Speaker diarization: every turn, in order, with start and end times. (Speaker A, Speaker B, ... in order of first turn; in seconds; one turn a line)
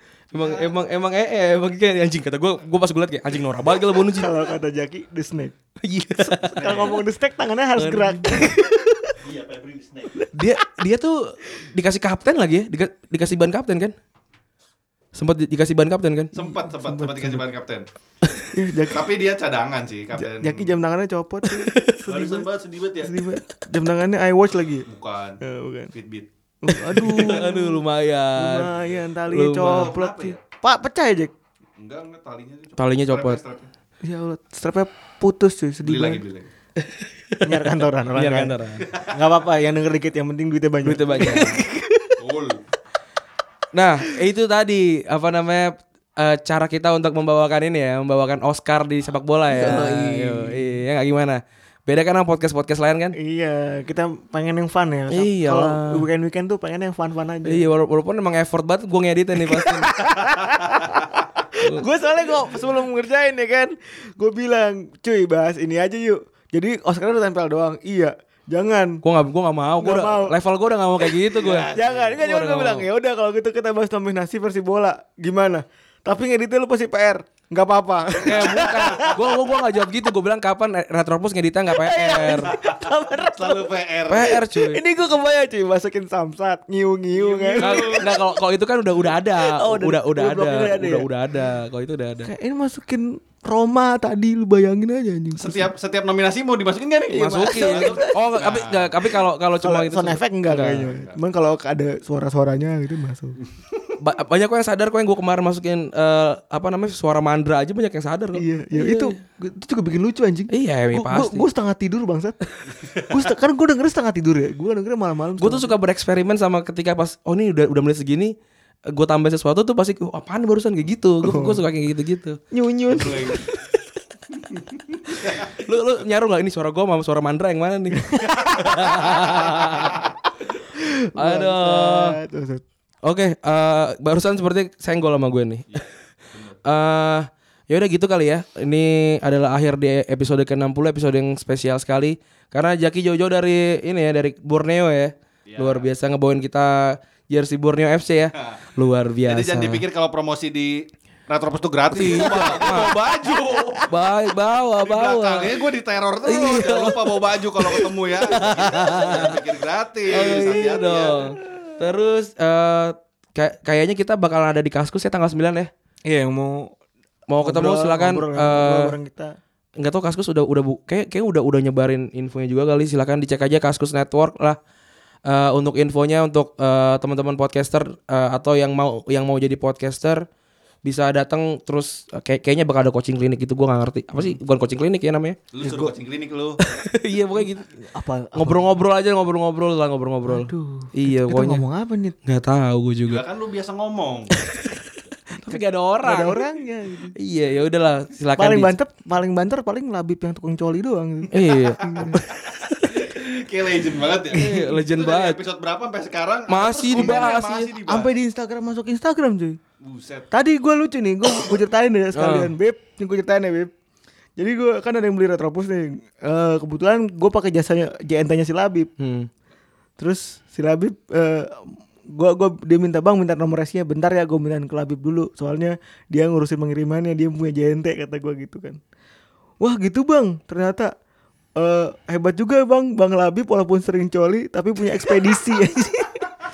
Speaker A: 0.3-4.3
Speaker B: 0.3-0.7
Speaker C: 4.1-5.5
Speaker A: 5.8-6.7
Speaker B: 6.4-7.0
Speaker C: 6.6-9.2
Speaker A: 7.8-8.5
Speaker B: 9.2-10.2
Speaker A: 10.3-13.9
Speaker A: 15.2-16.3
Speaker B: 16.4-17.9
Speaker C: 16.4-17.4
Speaker C: 18.5-19.1
Speaker B: 18.9-20.8
Speaker C: 20.1-22.5
Speaker A: 21.5-22.0
Speaker B: 22.1-23.2
Speaker C: 23.0-24.9
Speaker B: 24.9-25.4
Speaker C: 25.4-25.9
Speaker B: 25.9-26.3
Speaker C: 26.6-27.8
Speaker A: 26.7-28.7
Speaker C: 28.4-31.3
Speaker A: 29.3-29.9
Speaker B: 29.6-30.4
Speaker B: 31.8-33.7
Speaker A: 32.8-33.4
Speaker C: 34.0-36.2
Speaker B: 35.8-36.5
Speaker A: 36.8-37.6
Speaker C: 37.4-42.2
Speaker A: 38.1-38.9
Speaker A: 40.8-41.6
Speaker B: 41.1-41.6
Speaker B: 42.2-42.6
Speaker A: 43.7-53.2
Speaker C: 49.5-50.7
Speaker C: 53.2-57.7
Speaker A: 55.1-56.0
Speaker A: 57.5-59.9
Speaker C: 59.4-69.0
Speaker A: 69.0-72.9
Speaker C: 69.8-70.3
Speaker B: 71.3-72.2
Speaker C: 71.7-79.3
Speaker A: 78.3-82.5
Speaker C: 81.7-88.0
Speaker B: 82.5-84.4
Speaker A: 84.1-84.8
Speaker B: 87.1-88.1
Speaker A: 87.6-92.3
Speaker C: 89.4-91.1
Speaker C: 92.2-95.7
Speaker B: 95.4-99.1
Speaker C: 97.1-98.2
Speaker A: 97.2-100.9
Speaker C: 99.6-103.4
Speaker B: 100.9-101.2
Speaker A: 104.0-109.2
Speaker C: 108.3-112.4
Speaker A: 110.5-111.5
Speaker C: 113.1-115.7
Speaker A: 115.4-118.3
Speaker A: 118.9-122.4
Speaker C: 121.2-121.6
Speaker C: 122.5-123.4
Speaker B: 123.0-123.4
Speaker B: 124.5-125.5
Speaker A: 125.5-130.0
Speaker C: 128.0-128.5
Speaker C: 130.8-132.6
Speaker A: 131.2-132.2
Speaker A: 133.1-135.8
Speaker B: 135.7-136.6
Speaker A: 136.7-149.8
Speaker B: 145.5-145.9
Speaker B: 149.3-153.9
Speaker A: 151.9-152.9
Speaker A: 153.9-155.5
Speaker B: 154.8-161.4
Speaker A: 156.2-159.4
Speaker A: 160.1-165.7
Speaker C: 166.1-166.8
Speaker A: 167.3-169.0
Speaker C: 167.4-169.3
Speaker A: 169.8-174.6
Speaker A: 175.3-180.3
Speaker A: 180.8-185.4
Speaker B: 185.5-186.6
Speaker C: 185.6-185.9
Speaker A: 186.7-187.7
Speaker C: 187.8-188.7
Speaker A: 188.4-191.6
Speaker C: 190.3-192.2
Speaker A: 192.2-193.2
Speaker B: 193.1-194.3
Speaker A: 194.5-194.8
Speaker A: 195.4-196.4
Speaker C: 195.5-197.1
Speaker A: 197.2-198.7
Speaker C: 198.4-202.2
Speaker A: 201.3-202.9
Speaker B: 202.9-208.1
Speaker C: 204.3-204.7
Speaker A: 204.3-205.4
Speaker A: 206.5-207.7
Speaker C: 206.9-207.2
Speaker C: 207.9-209.6
Speaker B: 209.8-210.3
Speaker C: 210.3-213.7
Speaker A: 212.2-212.5
Speaker C: 214.4-218.9
Speaker A: 219.0-219.3
Speaker C: 220.0-228.8
Speaker C: 229.6-230.9
Speaker C: 231.6-236.3